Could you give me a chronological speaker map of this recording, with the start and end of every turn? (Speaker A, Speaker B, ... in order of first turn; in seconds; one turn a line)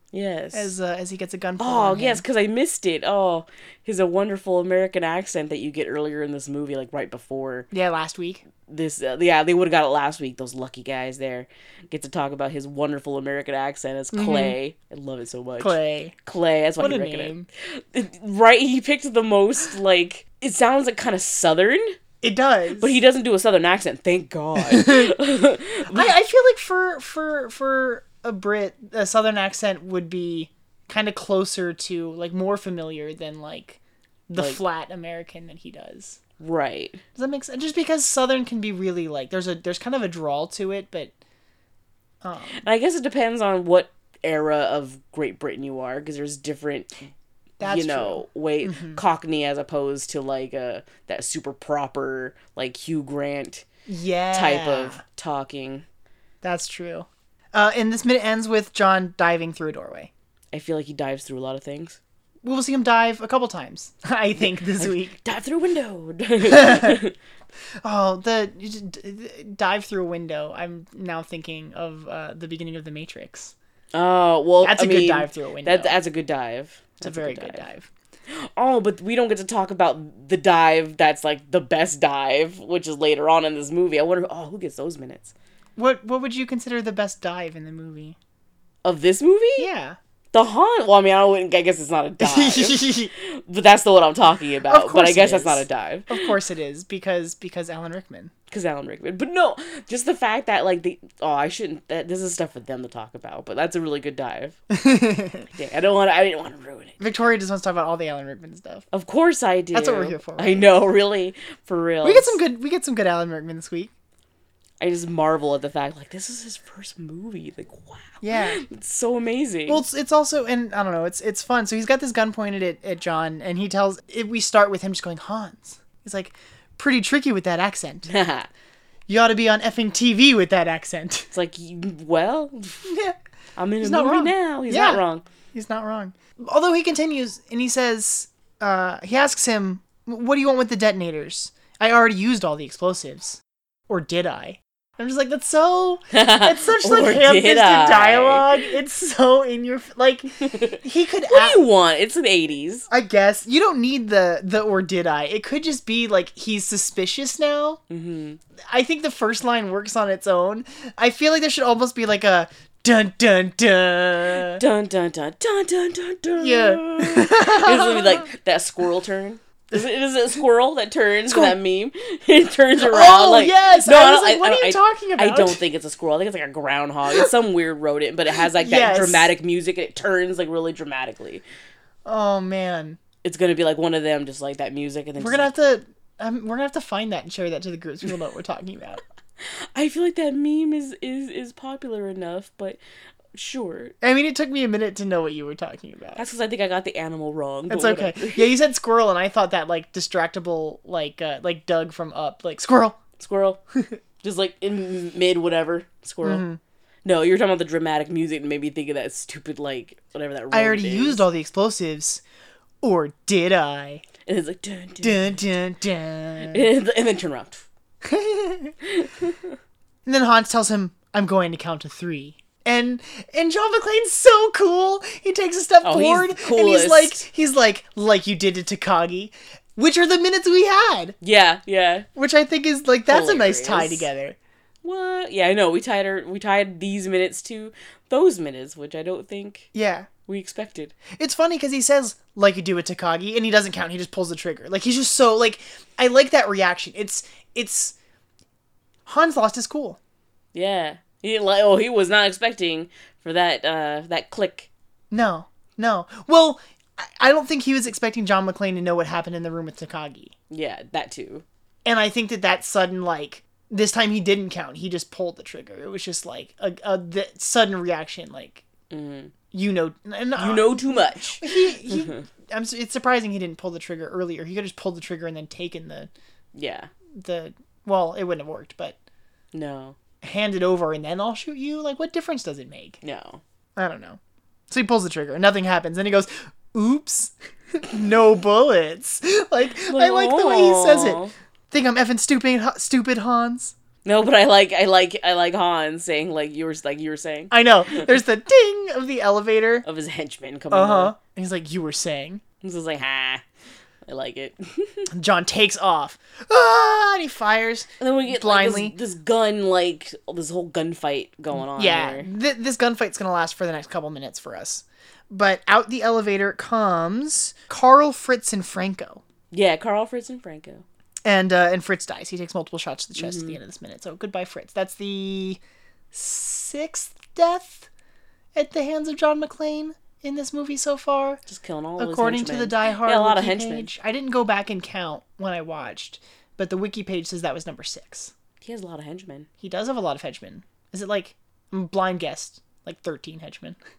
Speaker A: 0.1-0.7
Speaker B: 0.5-2.2
Speaker A: 1.6-7.7
Speaker B: 7.7-8.4
Speaker A: 8.7-21.9
Speaker B: 14.1-14.6
Speaker B: 15.6-16.1
Speaker B: 16.8-17.5
Speaker B: 22.2-23.0
Speaker A: 22.8-26.1
Speaker B: 24.6-25.1
Speaker B: 25.9-36.2
Speaker A: 36.4-37.0
Speaker B: 37.1-41.1
Speaker B: 42.2-42.6
Speaker A: 42.6-47.0
Speaker B: 47.6-49.0
Speaker A: 47.6-53.6
Speaker B: 53.9-55.0
Speaker A: 54.3-55.8
Speaker B: 56.4-60.1
Speaker A: 60.5-62.0
Speaker B: 62.4-65.2
Speaker A: 64.3-67.2
Speaker B: 66.5-67.0
Speaker B: 67.8-73.5
Speaker A: 73.9-77.6
Speaker B: 74.6-76.0
Speaker B: 77.0-77.9
Speaker A: 78.3-85.3
Speaker B: 85.8-88.2
Speaker A: 88.8-89.7
Speaker B: 89.6-90.0
Speaker A: 90.3-96.3
Speaker B: 92.2-93.1
Speaker B: 94.6-98.3
Speaker A: 98.5-104.6
Speaker B: 104.7-105.5
Speaker A: 105.5-106.9
Speaker B: 107.0-108.8
Speaker A: 108.9-112.4
Speaker B: 109.7-110.7
Speaker B: 112.0-113.9
Speaker A: 114.8-119.8
Speaker B: 118.2-118.6
Speaker B: 119.7-128.1
Speaker A: 128.1-128.5
Speaker B: 129.1-131.3
Speaker A: 131.3-132.9
Speaker B: 132.8-133.2
Speaker A: 133.6-135.2
Speaker B: 133.8-135.0
Speaker B: 135.5-151.7
Speaker A: 146.1-148.6
Speaker A: 150.4-152.9
Speaker B: 152.9-157.8
Speaker A: 157.9-158.4
Speaker B: 158.7-164.6
Speaker A: 164.3-181.4
Speaker B: 166.4-168.2
Speaker B: 171.3-171.6
Speaker B: 172.8-175.6
Speaker B: 178.5-179.3
Speaker B: 182.1-183.0
Speaker A: 183.2-185.5
Speaker B: 185.2-189.0
Speaker A: 189.4-192.8
Speaker A: 193.3-193.9
Speaker B: 194.0-196.2
Speaker A: 196.2-198.6
Speaker B: 197.7-203.0
Speaker A: 203.2-203.6
Speaker A: 204.2-206.4
Speaker B: 206.2-206.6
Speaker A: 207.0-211.2
Speaker B: 210.5-212.2
Speaker B: 212.8-214.1
Speaker A: 214.2-215.4
Speaker B: 215.0-216.7
Speaker A: 216.4-217.7
Speaker B: 218.0-218.7
Speaker A: 218.8-219.6
Speaker B: 220.1-231.2
Speaker A: 225.8-227.3
Speaker A: 231.2-232.1
Speaker B: 232.2-234.4
Speaker A: 233.1-234.1
Speaker A: 234.8-239.7
Speaker B: 239.7-240.1
Speaker A: 240.3-240.9
Speaker B: 241.2-248.0
Speaker B: 249.1-250.0
Speaker A: 250.5-254.7
Speaker B: 255.1-260.3
Speaker A: 260.5-261.4
Speaker B: 261.8-268.6
Speaker A: 268.9-269.3
Speaker B: 269.5-276.1
Speaker A: 270.4-272.2
Speaker A: 276.5-276.9
Speaker B: 277.2-279.0
Speaker A: 279.5-280.0
Speaker B: 280.2-283.0
Speaker A: 283.0-283.4
Speaker B: 283.8-284.2
Speaker B: 284.7-291.2
Speaker A: 289.9-291.3
Speaker B: 291.7-293.7
Speaker A: 294.0-298.2
Speaker B: 297.5-299.8
Speaker A: 299.8-301.1
Speaker B: 300.7-302.4
Speaker A: 302.6-303.4
Speaker A: 304.1-305.1
Speaker B: 305.1-308.9
Speaker A: 308.0-312.3
Speaker B: 311.6-319.2
Speaker A: 319.5-320.8
Speaker B: 321.2-325.6
Speaker A: 323.1-323.6
Speaker B: 326.1-327.9
Speaker B: 328.6-331.4
Speaker A: 331.5-333.9
Speaker B: 332.0-338.3
Speaker A: 338.6-339.5
Speaker B: 339.6-343.8